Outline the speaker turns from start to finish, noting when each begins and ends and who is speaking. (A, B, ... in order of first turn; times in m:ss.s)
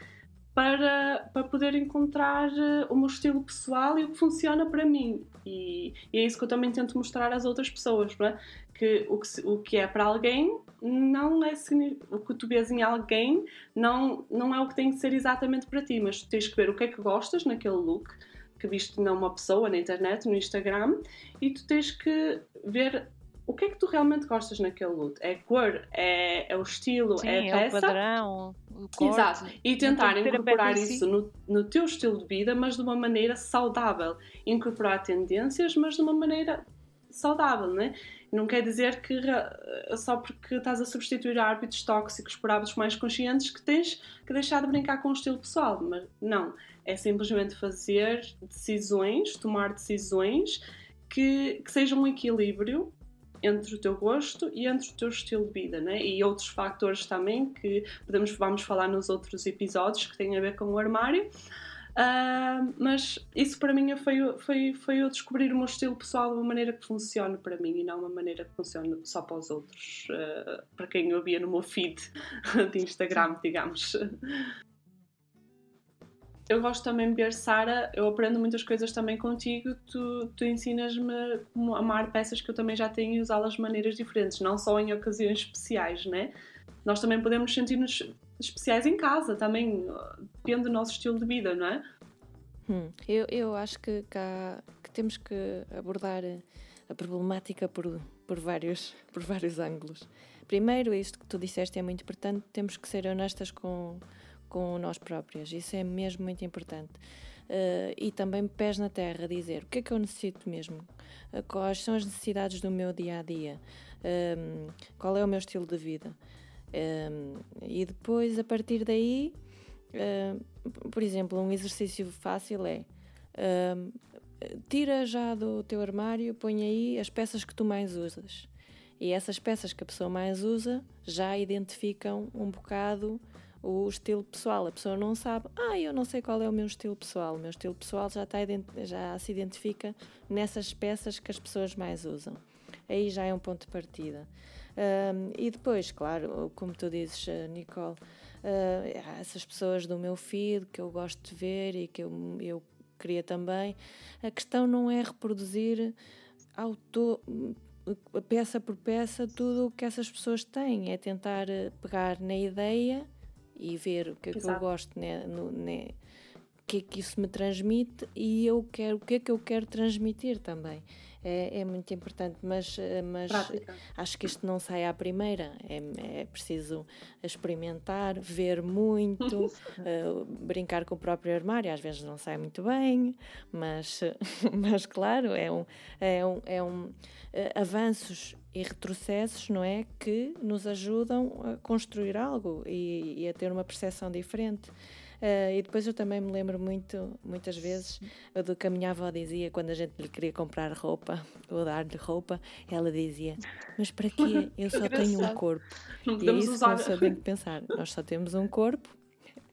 0:00.6-0:28.0 A
0:27.2-0:31.1 B
0:29.0-1:01.3 A
1:02.0-1:14.5 A
1:16.5-1:26.3 A
1:26.8-1:31.8 A
1:32.7-1:56.2 C
1:56.7-1:59.4 C
1:59.9-2:08.5 C
2:09.0-2:36.0 C
2:36.6-2:46.0 C
2:44.3-2:44.6 A
2:46.7-3:29.0 C
2:53.3-2:53.8 A
3:24.7-3:25.4 B
3:26.1-3:27.2 A